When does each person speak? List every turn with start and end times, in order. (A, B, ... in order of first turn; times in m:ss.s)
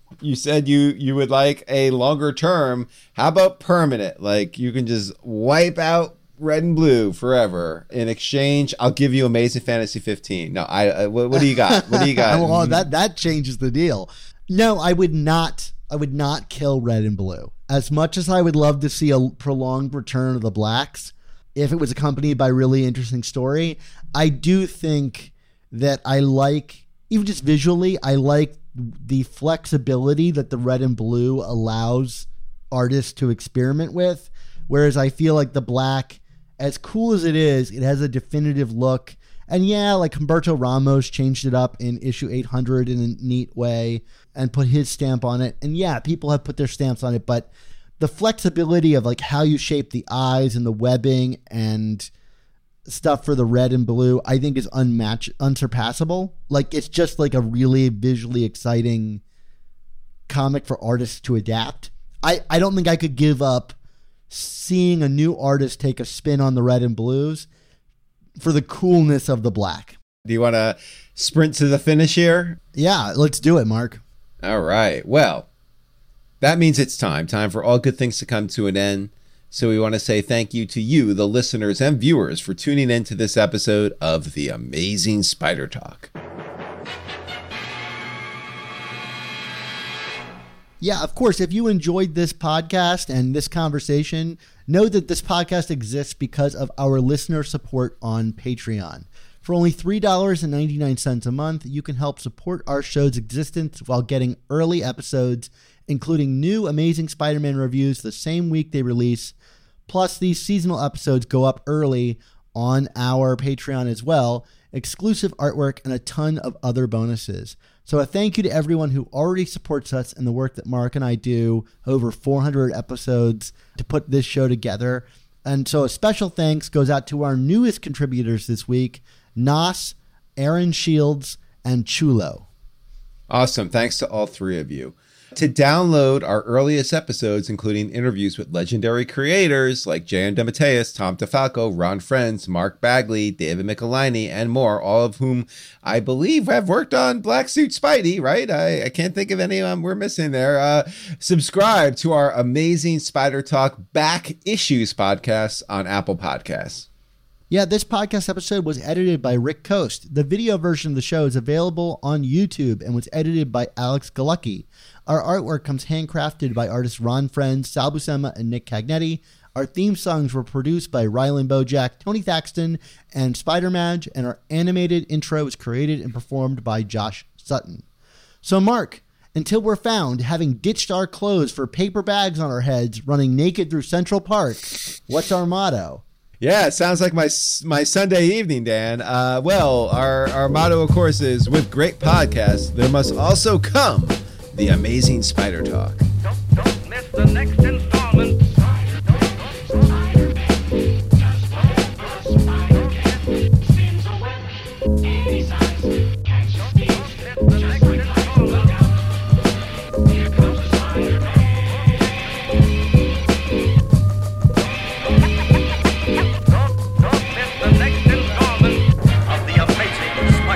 0:00.2-0:12.9 A
0:11.4-0:52.1 B
0:52.9-0:59.2 B
1:00.3-1:03.8 B
1:04.3-1:07.5 B
1:08.4-1:10.0 B
1:10.2-1:12.6 A
1:12.7-1:14.0 B
1:14.4-1:15.5 A
1:16.4-1:26.1 A
1:30.8-1:49.3 B
1:49.9-2:12.4 B
2:13.3-2:36.9 A
2:37.5-2:57.8 B
2:58.4-3:06.0 B
3:06.4-3:16.0 A
3:17.2-3:18.3 C
3:22.5-3:22.9 C
3:26.7-3:28.6 C
3:39.6-3:40.0 C